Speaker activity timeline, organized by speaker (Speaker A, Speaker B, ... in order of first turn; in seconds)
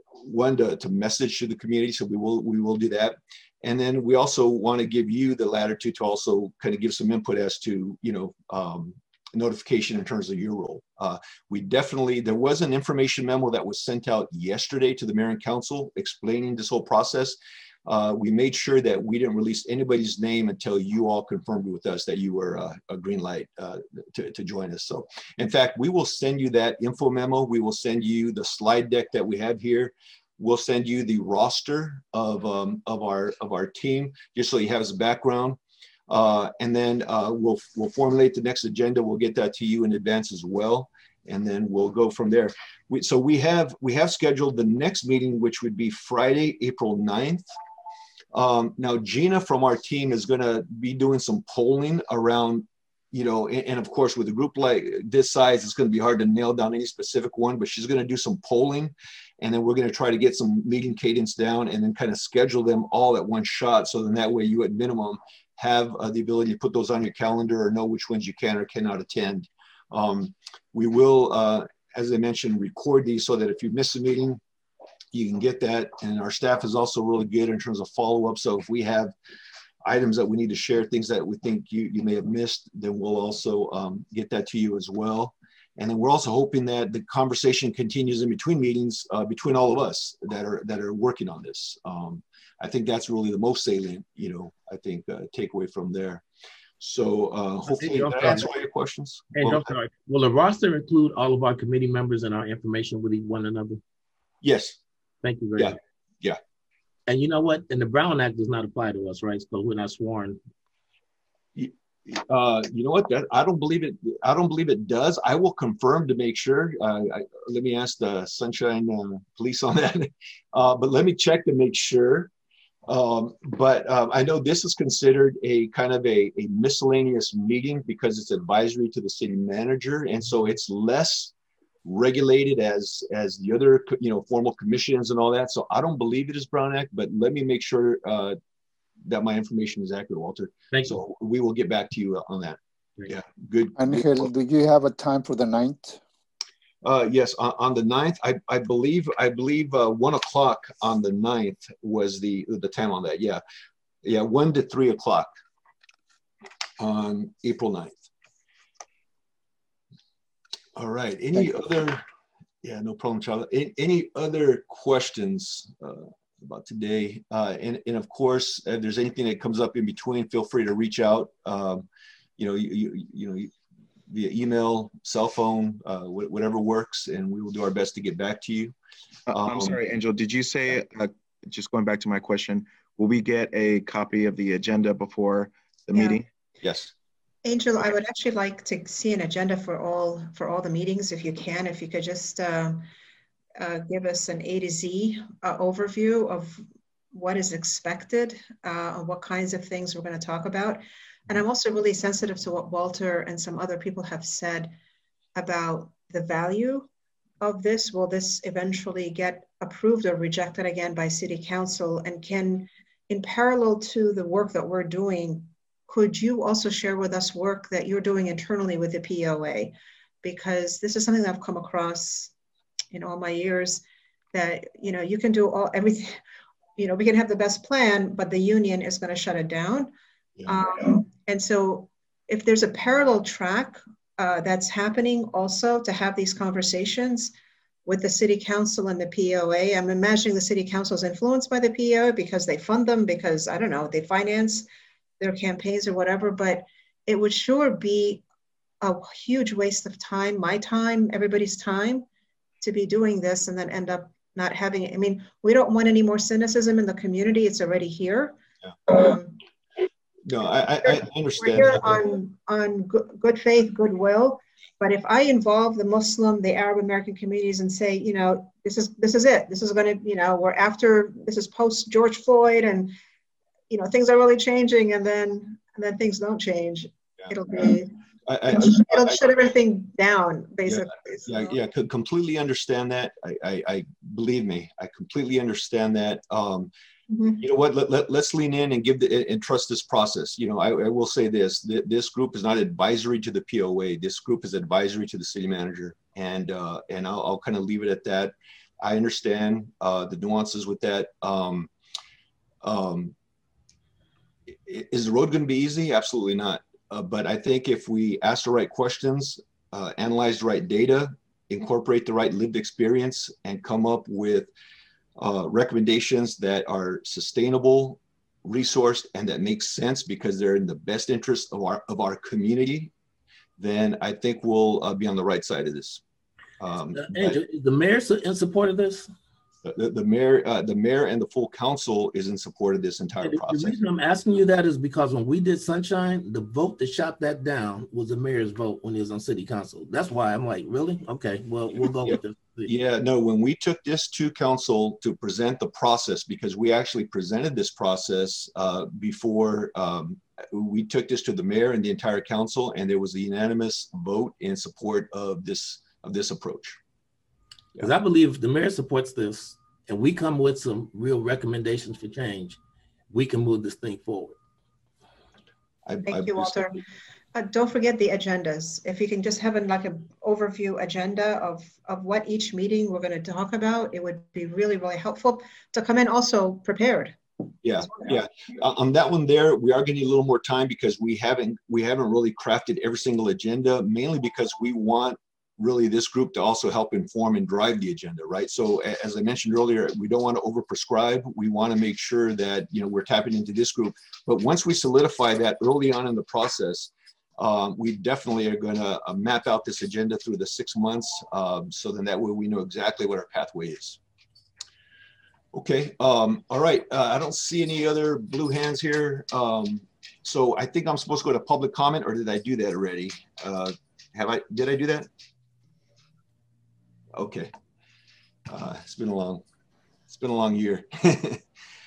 Speaker A: 0.2-35.6, 36.1-47.4, 48.3-74.4, 75.1-79.1, 79.8-96.2, 96.8-99.7, 104.4-104.8, 105.6-106.4, 111.5-122.3, 122.9-131.3, 131.8-138.3, 139.1-144.3, 146.8-153.4, 154.0-155.3, 156.8-158.1, 160.8-162.0, 162.6-171.8, 172.4-173.5, 174.1-178.7, 179.3-179.7, 186.6-186.9, 260.3-262.0, 278.3-279.2, 280.7-286.7, 287.4-301.7, 302.6-303.1, 304.6-314.5, 315.2-322.9, 323.6-326.0, 326.6-327.4, 329.6-333.8, 342.1-356.8, 365.9-366.8, 377.6-404.0, 405.5-415.1, 417.1-417.5, 418.5-419.4, 420.1-421.4
Speaker B: 97.7-98.5, 99.3-103.8, 105.2-105.7, 107.1-110.4, 140.7-141.0, 326.9-329.1, 333.2-342.7, 357.8-362.6, 363.1-364.3
Speaker C: 143.8-146.0
Speaker D: 179.3-186.2
Speaker E: 187.4-192.8, 193.6-204.7, 205.3-206.9, 207.4-222.3, 222.9-226.1, 226.8-229.9, 230.4-237.3, 237.8-244.7, 245.2-248.2, 248.8-252.0, 252.6-258.4, 258.9-259.3, 260.8-272.9, 273.7-277.9, 278.5-281.6, 287.1-287.4, 366.0-366.8, 367.3-377.2, 377.8-378.1